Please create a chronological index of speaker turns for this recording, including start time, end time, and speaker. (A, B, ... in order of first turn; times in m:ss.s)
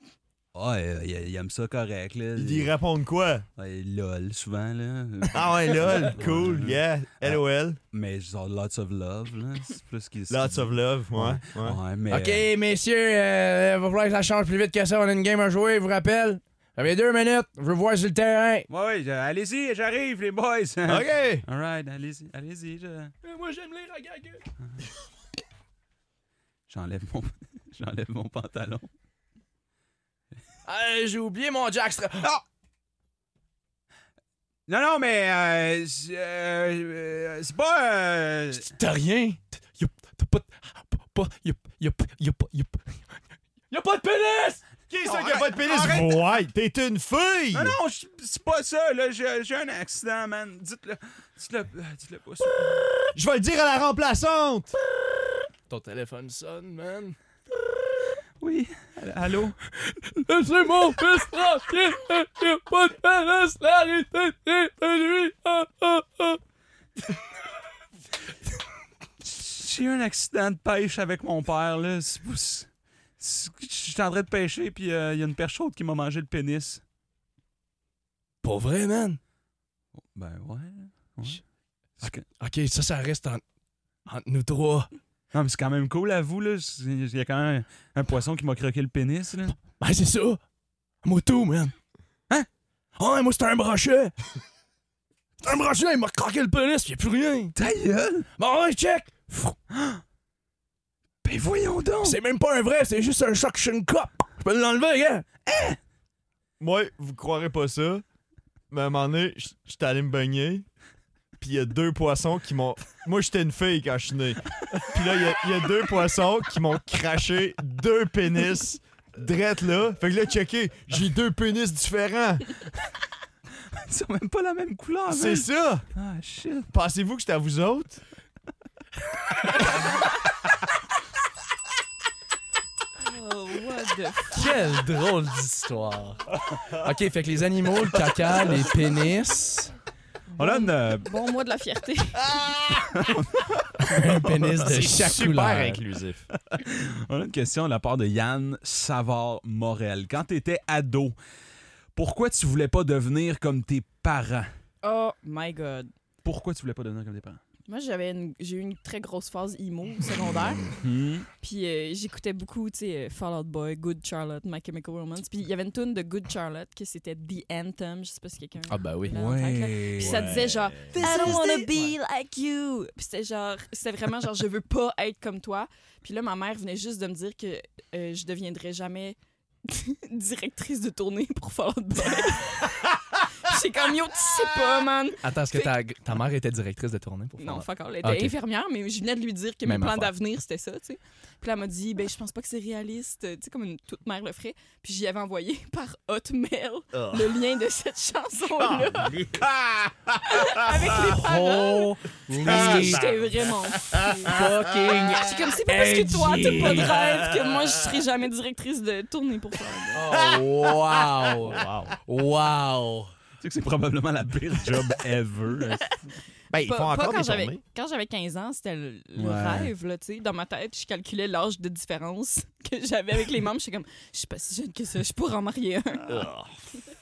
0:00.5-0:02.7 A
0:02.4-0:03.5 B
0:03.6-0:07.4 A
0:05.3-0:07.8 B
0:07.9-0:12.5 A
0:10.3-0:11.8 B
0:12.1-0:18.7 C
0:18.7-0:23.1 A
0:20.9-0:21.4 B
0:23.2-0:24.4 C
0:26.7-0:28.9 A
0:30.7-0:32.3 C
0:34.7-0:38.7 A
0:38.5-0:44.6 C
0:44.9-0:47.8 B
0:45.0-0:46.2 A
0:47.5-0:52.9 A
0:53.2-0:54.8 B
0:55.7-0:57.2 C
0:58.4-0:59.6 A
0:59.7-1:06.4 C
1:09.2-1:16.8 A
1:18.4-1:19.2 C
1:20.0-1:21.4 A
1:22.0-1:22.2 A
1:22.0-1:23.4 C
1:24.1-1:24.9 C
1:25.3-1:29.6 A
1:29.8-1:30.4 C
1:31.0-1:31.7 C
1:33.0-1:34.2 C
1:35.4-1:37.6 C
1:37.6-1:38.3 A
1:38.4-1:39.6 C
1:39.7-1:40.0 A
1:41.2-1:42.2 A
1:42.0-1:45.3 C
1:45.5-1:45.8 A
1:46.6-1:48.0 B
1:48.7-1:50.7 B
1:51.4-2:02.6 B
2:03.7-2:06.7 A
2:05.1-2:05.9 B
2:06.7-2:08.0 B
2:13.0-2:14.5 D
2:14.3-2:19.7 C
2:20.4-2:22.4 D
2:20.4-2:21.1 A
2:22.9-2:23.8 A
2:23.8-2:25.8 C
2:24.7-2:26.3 B
2:26.4-2:31.2 A
2:32.0-2:34.5 A
2:34.8-2:35.9 D
2:36.2-2:37.4 A
2:37.7-2:40.7 D
2:40.6-2:41.3 A
2:41.3-3:05.7 D
2:48.7-2:49.2 C
2:49.1-2:51.6 A
2:50.0-2:51.4 B
2:51.0-2:51.8 C
3:05.2-3:08.3 C
3:07.4-3:19.2 D
3:09.6-3:10.1 C
3:16.9-3:17.3 B
3:18.6-3:20.8 B
3:20.2-3:24.4 D
3:21.1-3:23.1 C
3:22.4-3:23.4 B
3:23.9-3:24.3 B
3:24.2-3:27.0 C
3:25.1-3:30.0 D
3:29.9-3:33.1 C
3:30.2-3:30.5 B
3:31.4-3:32.0 B
3:33.4-3:36.1 A
3:36.5-3:37.6 B
3:36.6-3:46.2 D
3:39.2-3:39.7 A
3:46.1-3:46.6 B